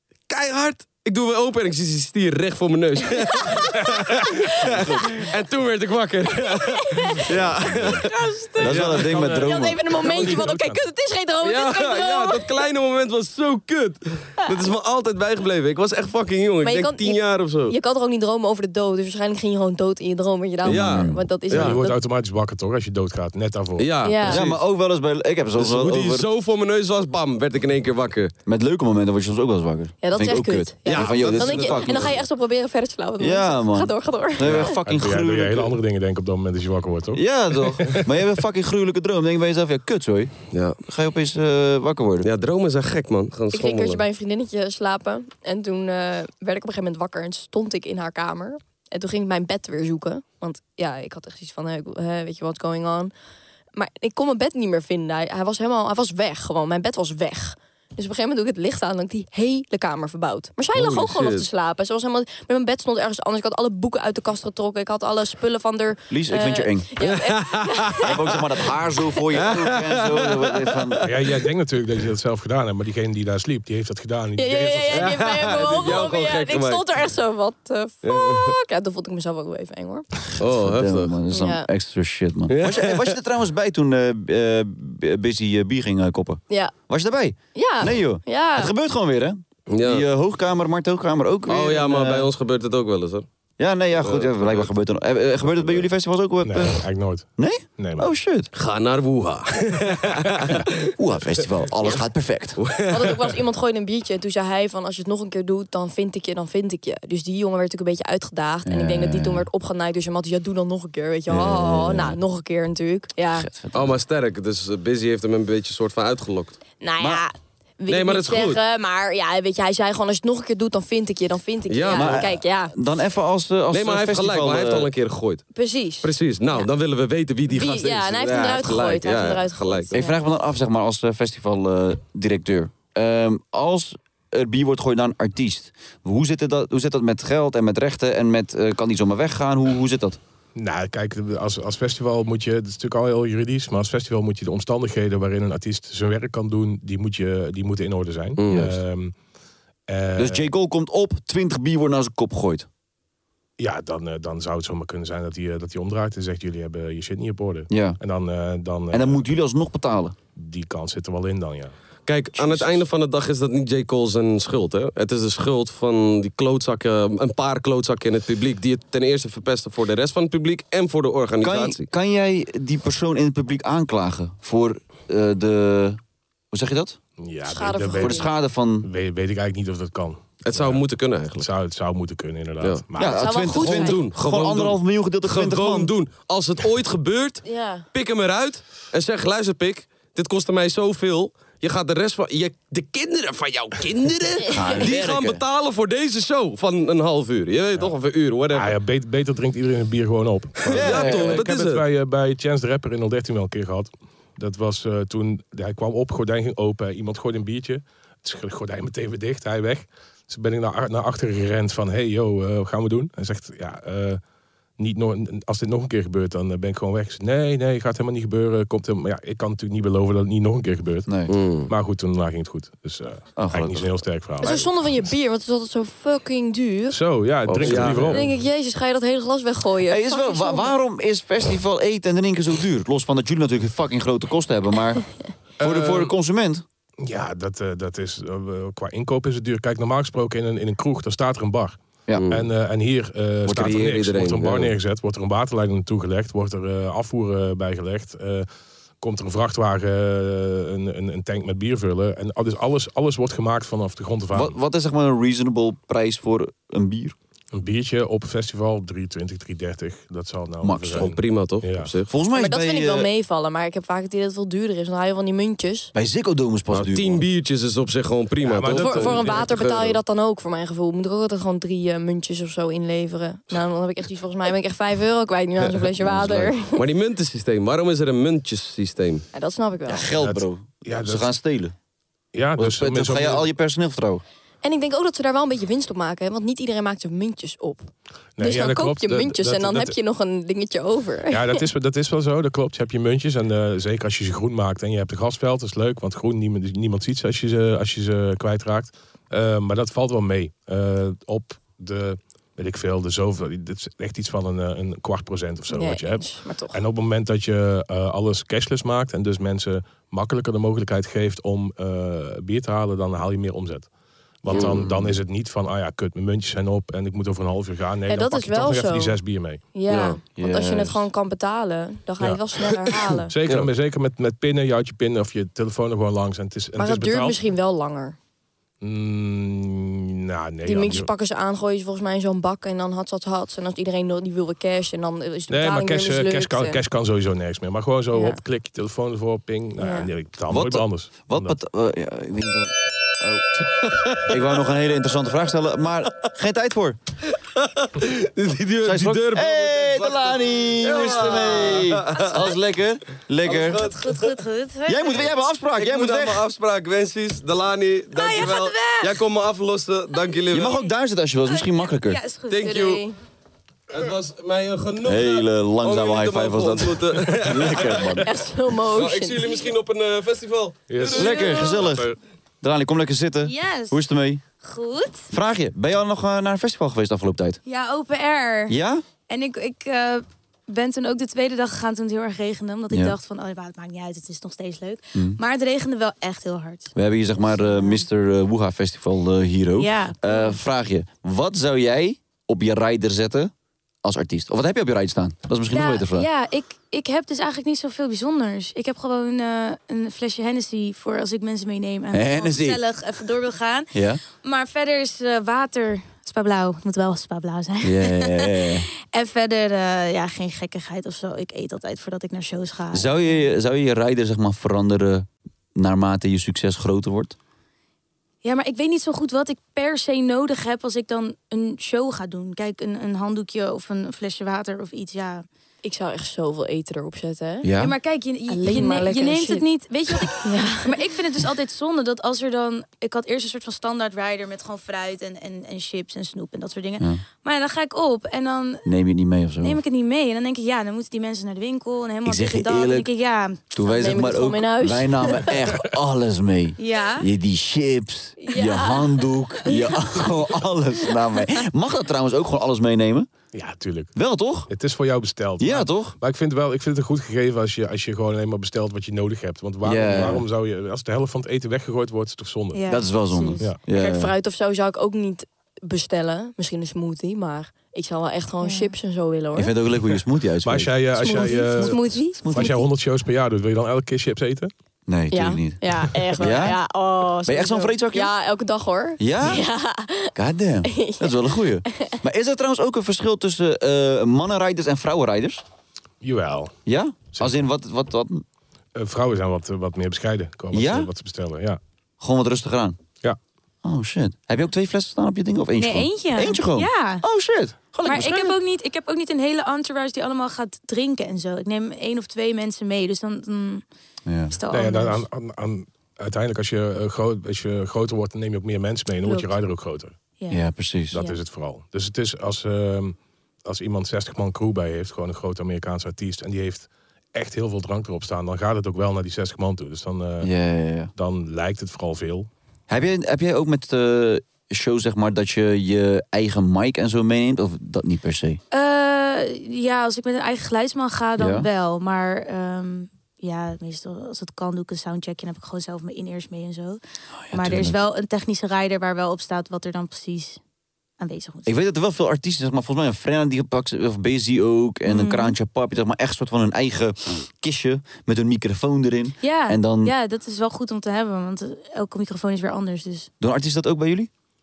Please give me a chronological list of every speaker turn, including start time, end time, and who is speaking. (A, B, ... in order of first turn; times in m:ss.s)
0:00.3-0:09.7 A
0:03.4-0:03.7 B
0:04.7-0:05.0 C
0:06.5-0:07.4 B
0:07.5-0:08.0 C
0:07.9-0:12.6 B
0:08.6-0:09.8 C
0:08.7-0:10.8 D
0:11.4-0:17.8 A
0:16.6-0:22.0 B
0:20.6-0:21.8 A
0:20.7-0:21.3 C
0:21.5-0:24.0 D
0:23.8-0:24.6 A
0:24.0-0:24.5 B
0:24.3-0:26.3 C
0:25.6-0:28.3 A
0:28.5-0:32.2 C
0:30.0-0:34.7 B
0:30.9-0:32.2 A
0:33.2-0:35.8 C
0:34.5-0:38.1 D
0:37.1-0:40.3 C
0:40.5-0:40.8 A
0:40.8-0:42.3 C
0:42.2-0:44.0 A
0:43.5-0:53.1 B
0:53.8-1:08.4 B
1:00.7-1:01.5 A
1:06.1-1:06.9 C
1:07.0-1:08.2 A
1:08.0-1:11.0 C
1:09.4-1:11.1 A
1:11.0-1:16.0 D
1:14.4-1:20.1 B
1:14.9-1:16.8 A
1:18.0-1:18.5 A
1:20.4-1:21.2 A
1:20.4-1:32.3 C
1:21.3-1:21.7 B
1:22.5-1:23.2 A
1:27.6-1:28.7 B
1:29.7-1:30.0 A
1:31.5-1:33.3 A
1:33.6-1:36.8 C
1:34.0-1:34.7 A
1:36.4-1:38.1 D
1:37.4-1:38.5 C
1:38.5-1:40.7 A
1:40.8-1:42.6 C
1:42.6-1:43.2 A
1:42.9-1:53.5 B
1:48.7-1:49.5 C
1:51.3-1:52.2 C
1:53.4-1:54.0 C
1:53.7-1:56.6 A
1:56.8-2:02.7 B
1:57.9-1:58.6 A
2:01.7-2:02.3 A
2:01.9-2:04.9 C
2:03.7-2:05.5 A
2:05.5-2:06.6 B
2:06.0-2:10.0 A
2:07.5-2:10.2 B
2:09.9-2:20.2 C
2:20.6-2:29.2 D
2:28.4-2:28.7 A
2:29.9-2:30.5 D
2:30.2-2:32.7 C
2:33.6-2:39.2 D
2:37.7-2:38.0 C
2:38.9-2:40.2 C
2:40.4-2:41.7 D
2:42.1-2:51.9 A
2:42.4-2:42.8 C
2:51.4-2:56.0 C
2:56.5-2:57.0 C
2:57.2-2:58.3 D
2:57.5-2:58.3 B
2:58.0-2:58.9 C
2:58.8-3:03.4 D
3:00.4-3:01.4 A
3:02.6-3:18.8 A
3:03.0-3:05.9 C
3:03.1-3:04.1 B
3:07.4-3:07.8 B
3:14.5-3:15.4 C
3:18.5-3:34.2 D
3:20.6-3:21.8 A
3:20.7-3:21.4 C
3:34.8-3:41.1 D
3:41.1-3:41.3 C
3:41.3-3:41.7 A
3:41.7-3:44.7 D
3:43.4-3:43.9 C
3:44.4-3:47.0 B
3:46.9-3:48.4 D
3:47.5-3:48.3 A
3:47.7-3:48.0 C
3:47.7-3:50.7 B
3:49.9-3:55.1 C
3:55.6-3:56.6 C
3:55.6-3:56.1 D
3:57.0-4:08.5 D
4:02.1-4:02.5 A
4:03.5-4:04.7 A
4:09.0-4:14.6 D
4:14.3-4:17.2 C
4:17.5-4:21.9 D
4:20.6-4:21.2 C
4:20.9-4:22.1 A
4:22.1-4:23.1 C
4:22.3-4:25.9 B
4:25.9-4:27.2 C
4:26.7-4:30.0 A
4:28.4-4:29.4 D
4:28.7-4:36.8 B
4:36.0-4:36.5 C
4:36.2-4:39.2 A
4:39.3-4:40.1 B
4:39.9-4:41.7 C
4:40.1-4:41.3 D
4:42.3-4:43.5 D
4:42.6-4:44.2 C
4:44.6-4:51.6 B
4:48.4-4:49.9 D
4:51.3-5:13.9 D
5:05.7-5:06.8 B
5:14.4-5:19.6 D
5:14.5-5:15.0 A
5:14.5-5:15.1 C
5:18.1-5:19.2 B
5:19.8-5:23.3 B
5:19.9-5:20.2 A
5:20.4-5:21.1 C
5:23.3-5:27.4 D
5:26.8-5:28.2 B
5:28.8-5:31.1 D
5:30.6-5:36.8 B
5:35.5-5:41.5 D
5:38.1-5:38.4 B
5:39.8-5:40.1 B
5:40.5-5:43.5 C
5:43.7-5:44.3 A
5:44.1-5:47.0 C
5:47.4-5:52.5 A
5:48.8-5:53.9 C
5:52.2-5:52.6 E
5:53.4-5:54.4 A
5:53.6-5:55.4 E
5:54.9-5:56.4 C
5:55.8-6:00.9 A
5:58.1-5:59.2 E
6:00.5-6:02.2 C
6:01.4-6:02.7 E
6:02.5-6:03.0 A
6:02.6-6:03.2 B
6:03.9-6:08.1 A
6:05.0-6:08.3 C
6:08.2-6:09.5 B
6:08.9-6:11.8 A
6:10.9-6:12.2 D
6:11.1-6:14.4 C
6:11.2-6:11.9 E
6:13.4-6:14.0 E
6:14.6-6:15.3 E
6:15.3-6:17.6 C
6:17.6-6:18.8 E
6:18.7-6:19.0 C
6:19.3-6:28.1 E
6:22.9-6:23.2 C
6:25.1-6:25.4 C
6:27.0-6:33.5 C
6:29.8-6:30.6 E
6:34.0-6:36.3 C
6:35.7-6:53.4 E
6:42.1-6:42.8 C
6:43.9-6:44.2 C
6:47.8-6:48.9 C
6:52.9-6:57.4 C
6:58.4-7:05.4 E
7:05.8-7:07.7 B
7:07.6-7:08.0 C
7:07.7-7:18.9 E
7:08.5-7:11.0 B
7:18.8-7:19.8 C
7:19.6-7:23.8 E
7:22.2-7:23.1 C
7:23.7-7:33.3 C
7:23.9-7:25.7 B
7:26.8-7:27.3 E
7:28.4-7:29.2 B
7:29.8-7:30.3 E
7:33.5-7:34.1 D
7:34.2-7:34.7 C
7:34.7-7:43.0 D
7:35.6-7:36.2 C
7:39.8-7:40.4 C
7:42.7-7:43.7 E
7:42.9-7:44.3 C
7:43.9-7:49.8 B
7:48.6-7:48.9 E
7:49.6-7:52.8 C
7:50.6-7:54.7 D
7:51.2-7:52.8 B
7:55.1-7:56.8 C
7:55.3-8:00.3 B
7:57.5-7:58.3 C
7:59.2-7:59.6 C
8:00.3-8:05.6 C
8:00.8-8:02.2 B
8:06.2-8:06.7 D
8:06.9-8:08.4 C
8:07.4-8:07.6 D
8:09.0-8:11.8 D
8:10.7-8:11.1 C
8:12.2-8:13.0 C
8:13.8-8:18.6 C
8:15.8-8:17.2 E
8:18.0-8:23.8 E
8:24.3-8:24.6 C
8:24.5-8:25.2 E
8:24.7-8:30.2 D
8:29.2-8:29.6 E
8:30.4-8:31.4 E
8:30.5-8:31.2 C
8:31.1-8:40.5 D
8:40.4-8:41.1 C
8:41.2-8:42.5 D
8:42.9-8:48.6 C
8:48.7-8:57.0 E
8:51.4-8:51.7 C
8:57.4-8:58.0 C
8:57.5-9:00.6 E
9:01.2-9:01.8 E
9:01.7-9:10.1 C
9:05.1-9:05.6 E
9:09.4-9:13.3 E
9:13.4-9:14.3 C